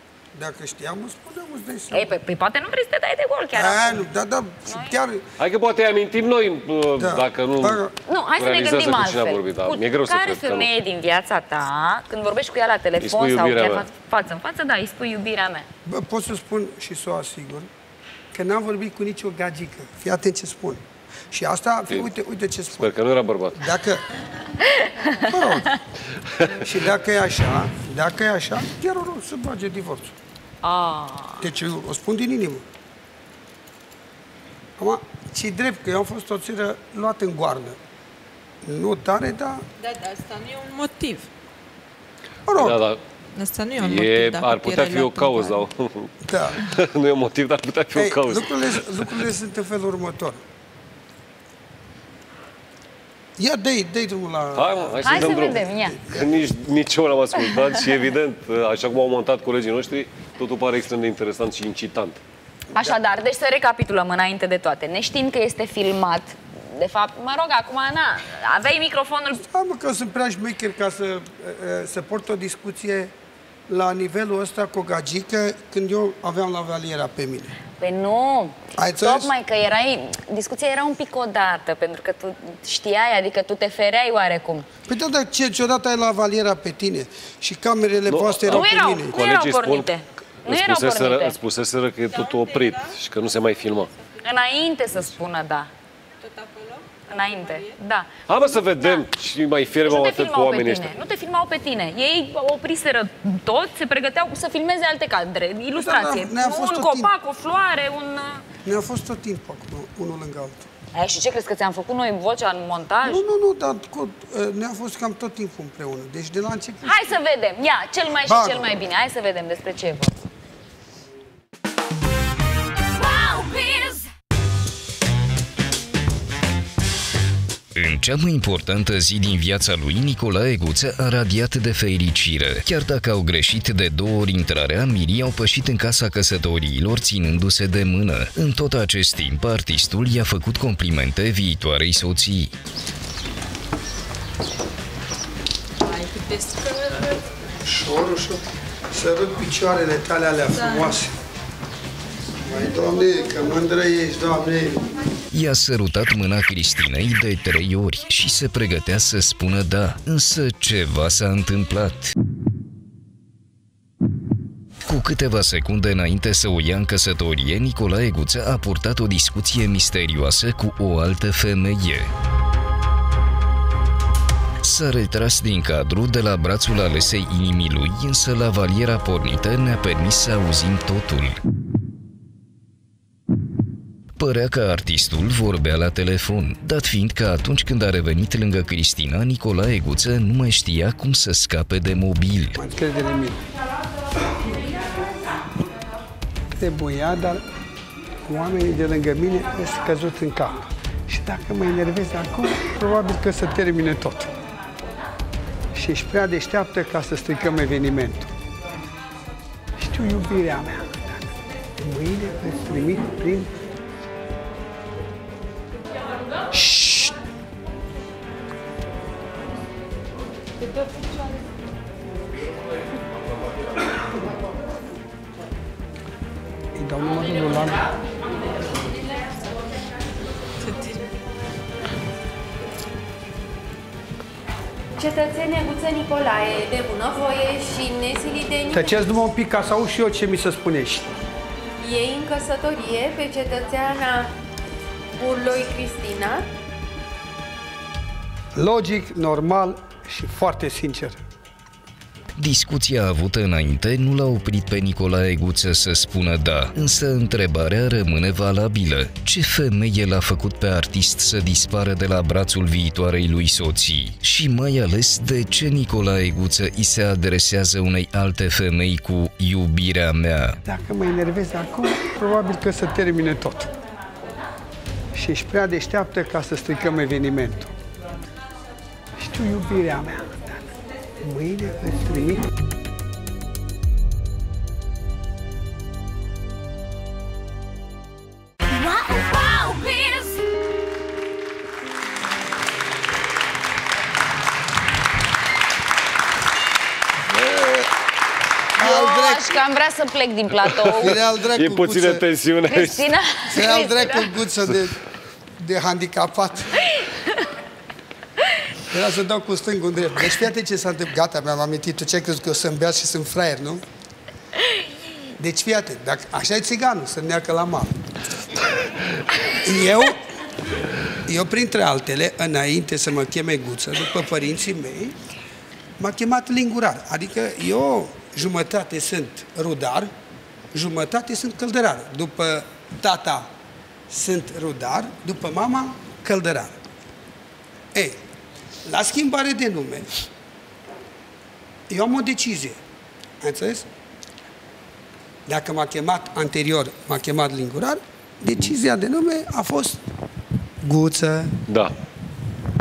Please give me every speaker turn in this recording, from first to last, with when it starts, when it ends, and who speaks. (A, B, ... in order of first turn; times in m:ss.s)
0:00.3-0:02.1 A
0:01.9-0:04.1 B
0:03.5-0:05.2 A
0:04.6-0:04.9 B
0:05.4-0:07.8 C
0:07.0-0:07.9 A
0:08.1-0:15.6 B
0:08.4-0:10.7 C
0:13.0-0:13.8 C
0:15.8-0:17.7 A
0:18.3-0:22.9 A
0:22.8-0:23.7 C
0:23.6-0:24.0 A
0:24.7-0:25.2 B
0:25.2-0:25.8 A
0:26.4-0:30.1 A
0:30.6-0:31.5 B
0:31.4-0:32.6 A
0:34.8-0:37.8 A
0:38.6-0:39.6 A
0:39.8-0:41.3 D
0:42.5-0:42.8 A
0:42.5-0:43.0 C
0:43.3-0:45.6 D
0:43.8-0:49.2 C
0:46.2-0:46.6 A
0:47.9-0:50.4 A
0:53.4-0:56.3 A
0:54.5-1:02.2 C
0:55.0-0:56.0 B
1:02.7-1:09.4 B
1:09.5-1:13.1 A
1:13.7-1:17.5 A
1:17.8-1:24.6 B
1:18.8-1:19.3 A
1:24.9-1:29.1 A
1:28.1-1:29.9 C
1:28.5-1:31.4 B
1:30.4-1:33.9 C
1:32.1-1:33.0 D
1:34.2-1:35.7 B
1:36.2-1:37.8 D
1:37.1-1:39.0 B
1:38.3-1:40.9 C
1:39.8-1:48.4 B
1:45.7-1:47.1 A
1:48.6-1:50.7 A
1:50.9-1:53.2 B
1:53.0-1:57.0 A
1:56.8-2:00.1 B
1:58.2-1:58.7 A
2:07.7-2:22.5 E
2:25.8-2:27.4 D
2:27.6-2:31.1 A
2:30.5-2:31.0 D
2:32.4-2:34.9 A
2:35.3-2:42.1 E
2:44.8-2:52.1 E
2:54.6-3:01.4 E
3:04.2-3:12.6 E
3:12.6-3:13.4 A
3:16.6-3:17.4 A
3:18.2-3:24.3 A
3:25.7-3:28.3 A
3:29.8-3:31.3 A
3:31.8-3:33.5 A
3:36.5-3:37.1 A
3:46.7-3:47.9 A
3:50.6-3:51.0 D
3:55.0-3:59.1 F
3:58.7-4:01.1 A
4:01.8-4:04.3 F
4:05.2-4:06.4 F
4:08.6-4:11.2 A
4:12.4-4:30.6 E
4:30.6-4:33.7 A
4:35.1-4:37.7 A
4:39.2-4:40.6 A
4:41.2-4:42.4 A
4:57.3-4:57.9 A
4:58.8-4:59.6 A
4:58.8-5:01.2 B
5:00.9-5:02.2 A
5:00.9-5:03.0 C
5:02.7-5:04.3 B
5:03.5-5:05.0 A
5:05.6-5:06.9 A
5:08.9-5:13.8 A
5:15.4-5:17.9 A
5:19.5-5:20.2 A
5:21.2-5:25.2 A
5:26.0-5:30.1 A
5:30.7-5:33.5 A
5:34.1-5:36.8 A
5:37.9-5:38.2 A
5:38.8-5:40.2 A
5:41.9-5:42.8 A
5:43.4-5:43.8 A
5:45.4-5:50.0 A
5:50.8-5:51.5 A
5:51.7-5:51.9 C